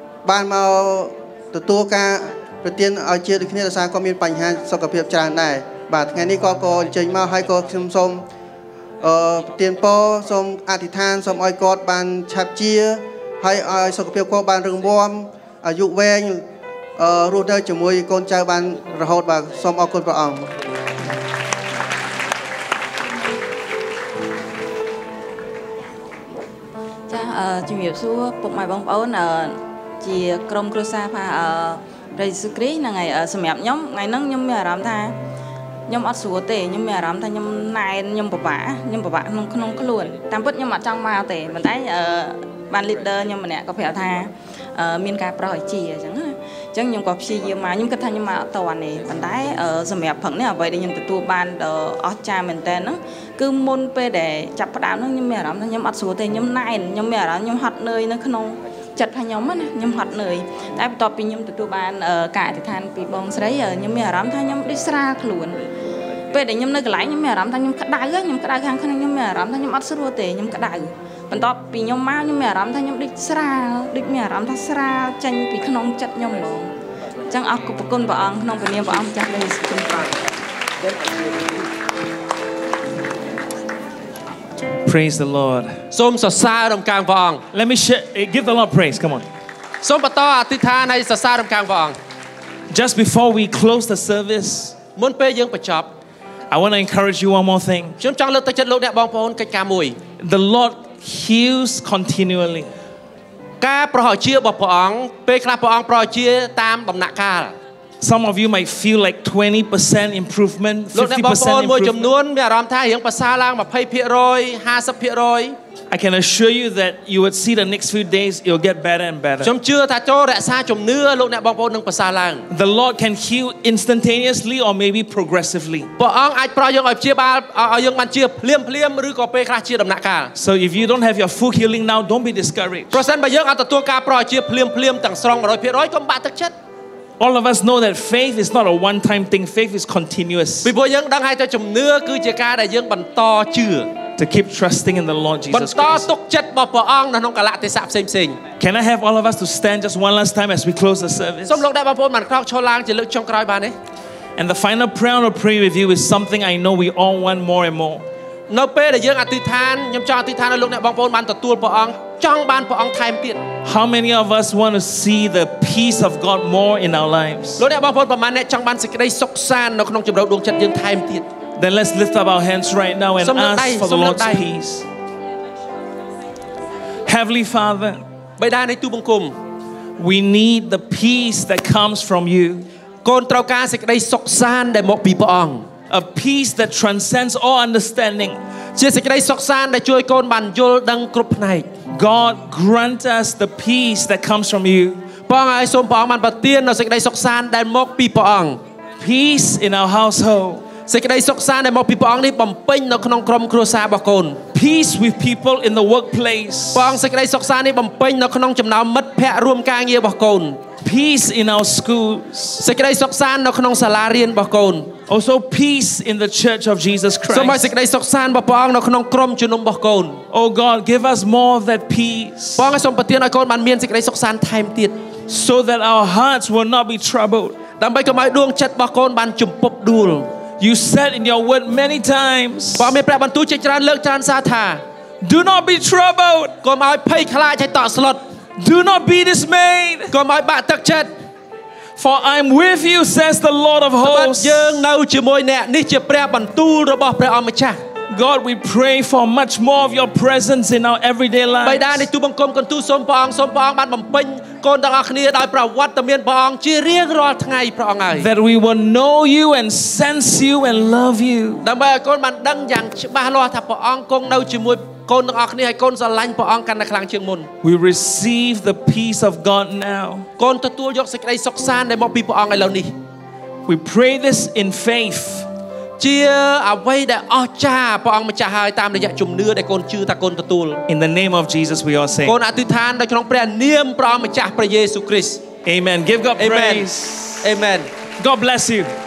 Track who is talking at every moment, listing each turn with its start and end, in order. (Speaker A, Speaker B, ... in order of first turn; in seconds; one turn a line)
Speaker A: 0.2-8.2
Speaker A: 9.0-16.4
Speaker A: 17.0-20.5
Speaker B: 27.1-35.1
Speaker B: 35.9-65.7
Speaker B: 66.3-76.7
Speaker B: 77.3-80.1
Speaker C: 84.8-85.8
Speaker D: 85.9-87.4
Speaker C: 87.5-89.2
Speaker D: 89.8-92.0
Speaker C: 92.7-94.8
Speaker D: 95.0-95.9
Speaker C: 96.5-98.0
Speaker D: 98.0-100.0
Speaker C: 100.2-102.7
Speaker D: 103.6-107.5
Speaker C: 108.0-112.1
Speaker D: 110.9-115.5
Speaker C: 115.9-119.5
Speaker D: 119.4-122.5
Speaker C: 122.5-125.9
Speaker D: 126.0-130.3
Speaker C: 130.3-133.0
Speaker D: 132.9-136.5
Speaker C: 137.2-140.7
Speaker D: 140.6-143.9
Speaker C: 144.2-146.1
Speaker D: 145.5-148.4
Speaker C: 148.6-151.6
Speaker D: 151.5-153.8
Speaker C: 154.4-158.0
Speaker D: 158.5-163.4
Speaker C: 163.6-167.6
Speaker D: 167.6-171.2
Speaker C: 171.6-174.9
Speaker D: 173.2-174.4
Speaker C: 177.1-178.0
Speaker D: 178.4-179.4
Speaker C: 180.0-182.7
Speaker D: 183.0-185.7
Speaker C: 185.9-188.4
Speaker D: 188.8-191.7
Speaker C: 191.9-195.0
Speaker D: 195.3-198.6
Speaker C: 199.0-200.6
Speaker D: 200.9-204.4
Speaker C: 204.5-207.0
Speaker D: 206.7-210.6
Speaker C: 210.8-212.6
Speaker D: 212.6-214.9
Speaker C: 215.1-217.7
Speaker D: 217.3-220.2
Speaker C: 220.3-222.7
Speaker D: 222.6-225.0
Speaker C: 225.3-227.6
Speaker D: 227.8-230.3
Speaker C: 230.6-232.9
Speaker D: 232.8-234.8
Speaker C: 235.2-236.5
Speaker D: 236.6-238.2
Speaker C: 238.6-240.1
Speaker D: 240.1-241.1
Speaker C: 242.0-244.8
Speaker D: 244.0-247.8
Speaker C: 248.1-252.1
Speaker D: 251.6-258.3
Speaker C: 258.1-261.6
Speaker D: 261.6-267.5
Speaker C: 267.6-270.3
Speaker D: 270.4-272.9
Speaker C: 273.6-275.5
Speaker D: 276.0-280.8
Speaker C: 280.9-282.3
Speaker D: 282.2-285.4
Speaker C: 285.6-287.5
Speaker D: 286.4-286.9
Speaker D: 287.4-287.9
Speaker C: 288.2-288.9